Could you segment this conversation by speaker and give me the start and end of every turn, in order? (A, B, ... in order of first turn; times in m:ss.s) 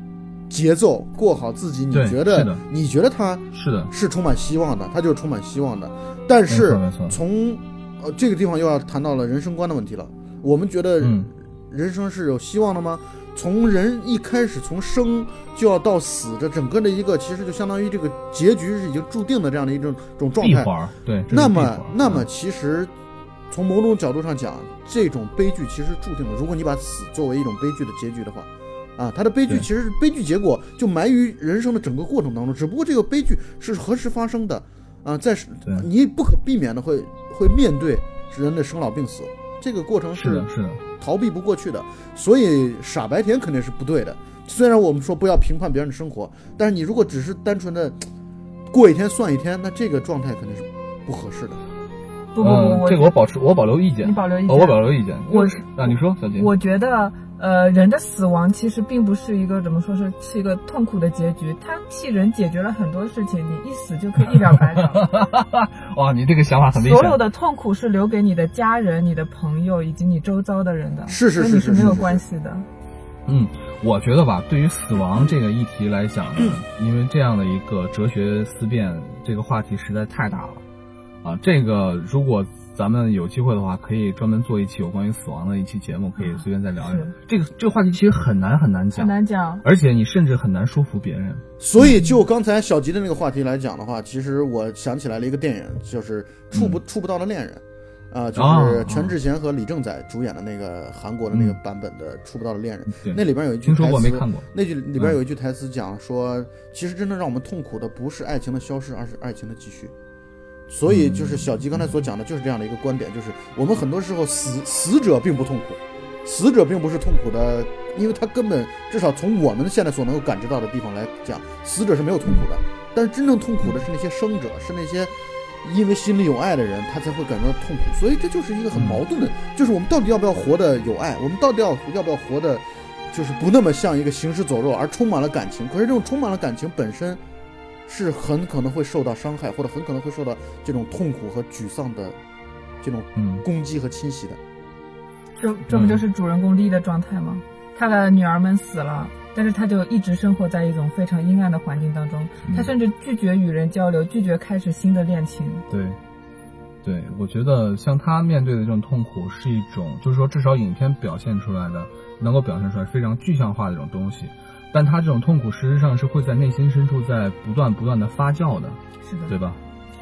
0:00.5-0:20.7 A
0:01.9-0:02.6 B
0:03.5-0:03.9 B
0:06.5-0:07.2 B
0:11.0-0:11.3 B
0:20.4-0:22.3 B
0:21.3-0:22.9 A
0:23.5-0:40.5 A
0:40.1-0:40.8 B
0:41.0-0:48.0 A
0:48.7-0:51.6 A
0:52.4-0:53.2 C
0:52.4-0:56.5 B
0:54.0-1:05.1 C
1:04.4-1:07.2 B
1:06.7-1:12.7 C
1:11.1-1:12.2 A
1:13.3-1:20.6 B
1:21.2-1:31.4 B
1:26.2-1:27.1 C
1:29.0-1:29.7 C
1:31.6-1:49.9 A
1:36.5-1:36.8 B
1:38.4-1:39.1 B
1:42.9-1:44.5 B
1:50.7-2:17.2 A
1:50.9-1:51.5 B
2:08.7-2:09.0 B
2:17.9-2:22.2 A
2:22.8-2:24.4 A
2:23.2-2:23.5 B
2:25.4-2:35.7 C
2:25.7-2:26.0 B
2:32.5-2:32.7 B
2:35.7-2:36.0 B
2:36.8-2:49.6 B
2:49.0-2:49.4 C